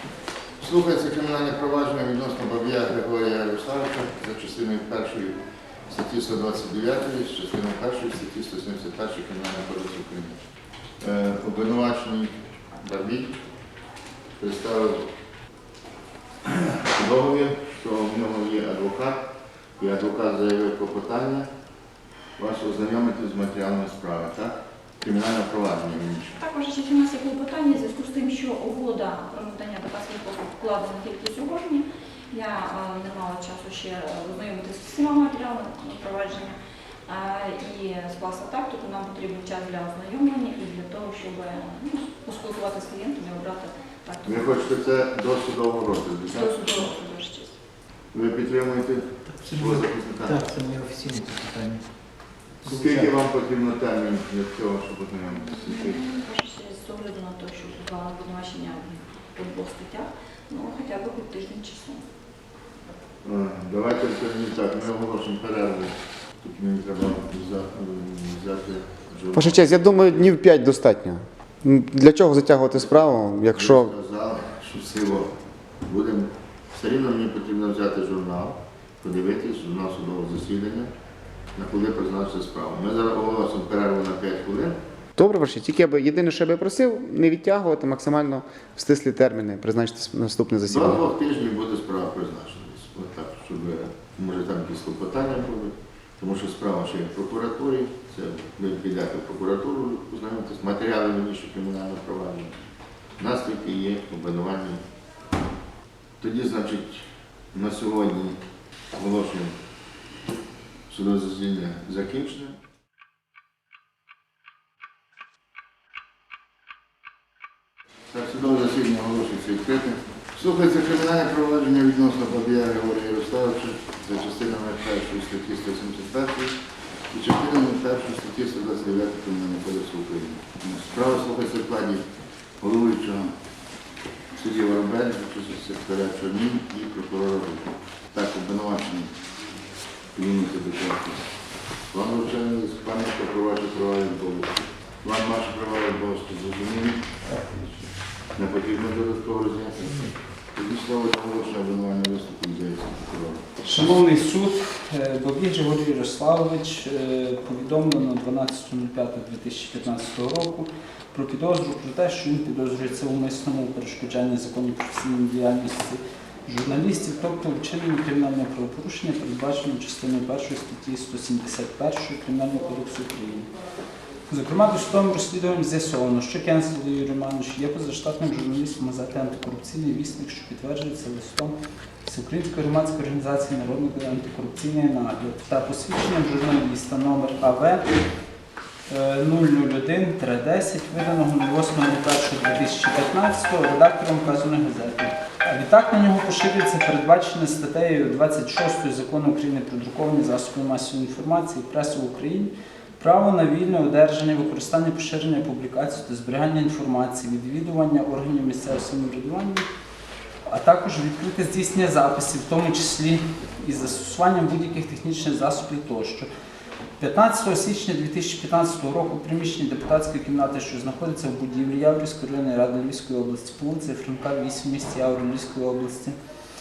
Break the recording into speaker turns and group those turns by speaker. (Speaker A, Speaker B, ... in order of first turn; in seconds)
Speaker A: 0.6-10.4, 11.0-13.4, 14.4-15.1, 16.5-19.3, 19.8-21.5, 22.4-26.4, 44.3-46.9, 48.1-50.4, 52.6-56.0, 63.2-70.3, 73.5-80.9, 81.5-84.8, 90.7-102.6, 103.2-104.8, 106.2-108.4, 108.9-109.6, 110.9-112.6, 118.1-126.6, 127.1-132.1, 132.6-133.3, 134.4-139.1, 140.1-141.3, 141.9-147.2, 148.4-150.0, 150.5-153.6
Speaker B: 26.4-36.5, 37.1-44.8, 46.3-47.6, 55.5-62.0
Speaker C: 49.3-51.9, 52.6-53.1, 147.3-147.9
Speaker D: 69.3-73.9, 85.2-91.0
Speaker E: 153.6-173.5, 174.3-181.5, 182.1-187.8, 188.9-209.7, 210.5-216.3, 217.0-226.2